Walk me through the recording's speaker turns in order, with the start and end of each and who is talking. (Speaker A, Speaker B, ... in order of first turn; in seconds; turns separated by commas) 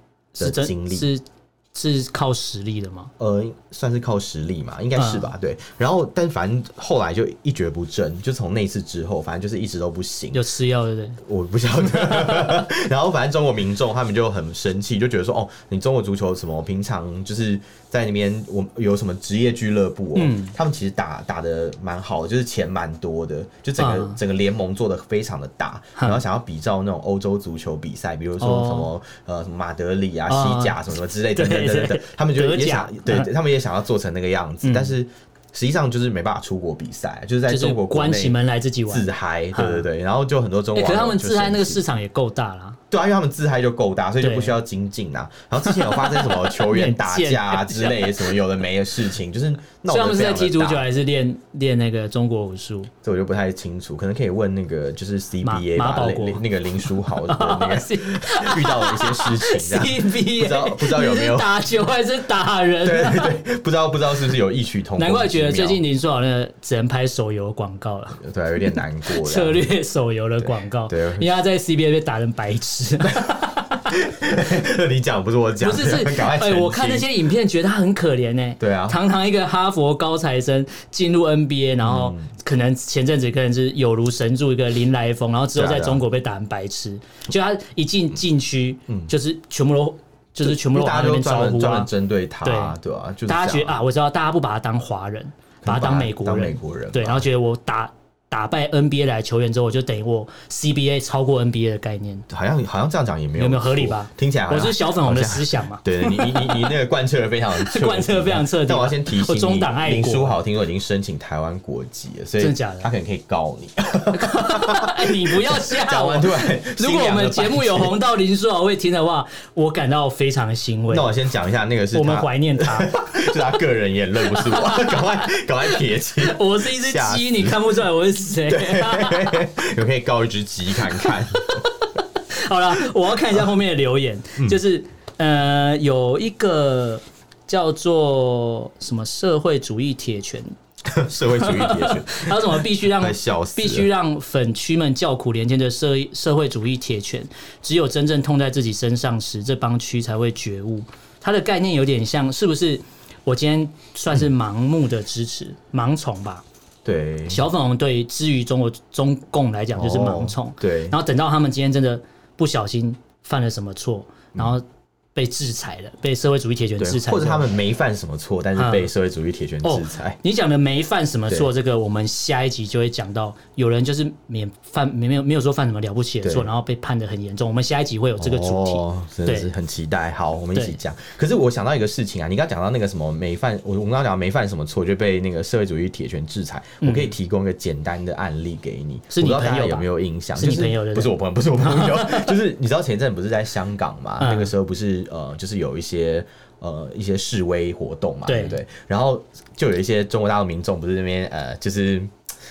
Speaker A: 0.3-3.1, Speaker B: 0.4-1.1, Speaker B: 3.2-10.4, Speaker A: 5.0-5.3, Speaker A: 10.3-11.2, Speaker B: 11.2-41.8, Speaker A: 11.8-12.7, Speaker A: 20.1-20.5, Speaker A: 23.8-24.2, Speaker A: 28.4-28.9, Speaker A: 30.3-30.8, Speaker A: 31.3-33.3, Speaker A: 34.6-35.0, Speaker A: 37.5-39.9, Speaker A: 40.8-42.8, Speaker B: 42.9-50.8, Speaker A: 44.2-44.6, Speaker A: 45.6-48.3, Speaker A: 49.9-52.9, Speaker B: 53.0-61.7, Speaker A: 55.4-56.4, Speaker A: 57.0-63.4, Speaker B: 62.8-65.8, Speaker A: 65.0-73.9, Speaker B: 68.2-69.7, Speaker B: 70.4-71.3, Speaker B: 73.9-77.1, Speaker A: 75.6-91.9, Speaker B: 78.6-79.0, Speaker B: 81.8-82.3, Speaker B: 85.5-86.0, Speaker B: 90.4-93.8, Speaker A: 92.4-92.8, Speaker A: 93.3-102.3, Speaker B: 95.6-97.3, Speaker B: 102.3-118.0, Speaker A: 103.4-106.7, Speaker A: 107.6-110.4, Speaker A: 112.4-112.9, Speaker A: 114.1-121.1, Speaker B: 120.9-127.8, Speaker A: 121.9-123.3, Speaker A: 124.2-129.5, Speaker B: 128.5-131.7, Speaker A: 131.0-140.5, Speaker B: 140.9-143.9, Speaker A: 141.3-156.4, Speaker B: 156.8-157.4, Speaker A: 157.3-164.6, Speaker B: 159.8-161.0, Speaker A: 165.2-167.5, Speaker B: 166.8-170.2, Speaker A: 168.6-168.9, Speaker A: 169.6-179.5, Speaker B: 176.2-176.5, Speaker B: 178.2-202.1, Speaker A: 186.8-187.1, Speaker A: 189.1-192.3, Speaker A: 194.2-194.5, Speaker A: 198.3-198.6